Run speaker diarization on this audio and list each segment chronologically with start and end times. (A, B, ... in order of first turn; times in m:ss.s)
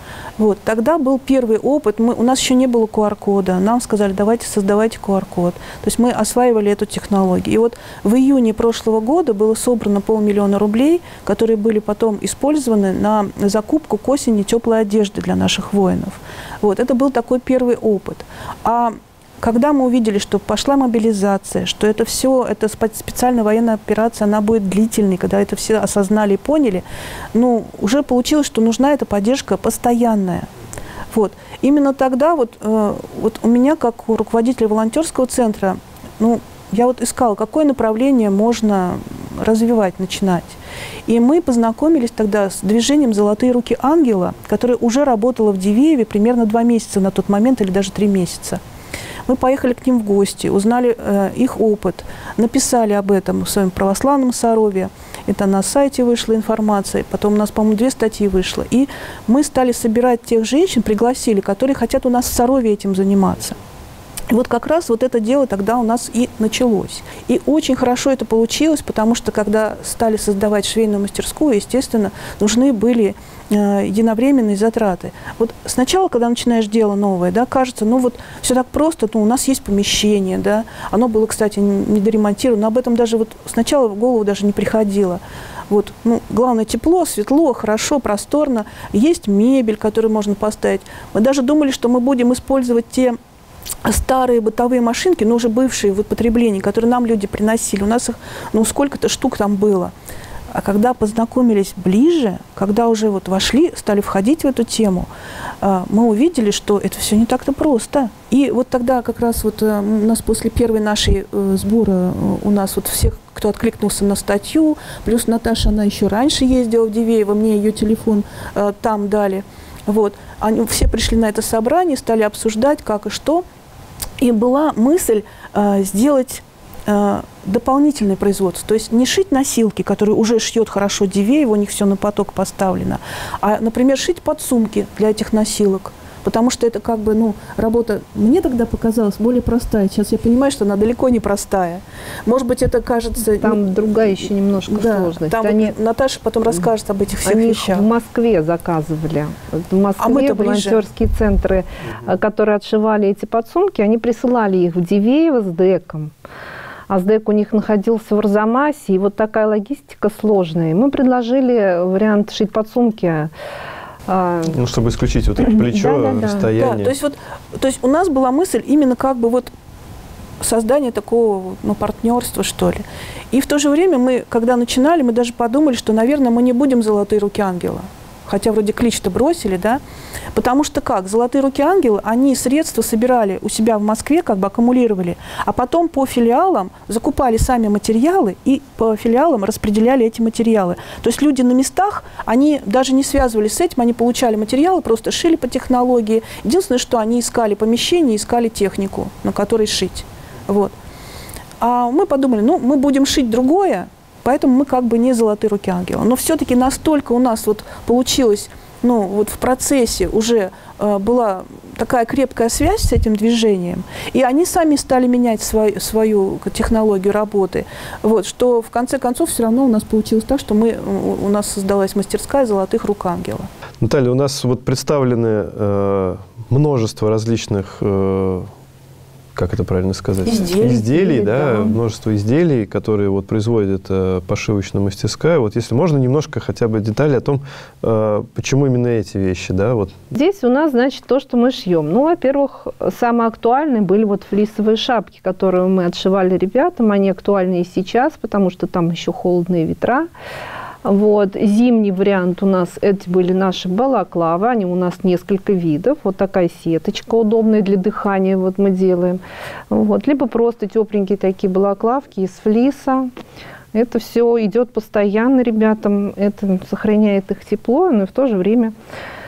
0:00.4-0:30.5 A
0:31.1-0:48.6 A
0:49.3-1:03.6 A
1:04.3-1:33.2 A
1:33.8-1:39.9 A
1:40.5-1:45.1 A
1:45.6-2:03.4 A
2:04.2-2:24.1 A
2:23.4-2:25.7 B
2:24.7-2:27.9 A
2:27.2-2:36.1 B
2:30.0-2:30.8 A
2:36.9-2:43.3 B
2:44.1-2:44.6 B
2:44.5-2:46.9 C
2:45.4-2:46.5 B
2:46.6-2:49.5 A
2:50.4-2:59.8 A
3:00.3-3:20.7 A
3:21.6-3:43.5 A
3:43.8-3:48.5 C
3:49.3-3:59.9 C
3:50.2-3:50.8 A
3:50.3-3:51.8 B
4:00.1-4:10.1 B
4:10.8-4:23.1 B
4:23.7-4:28.7 B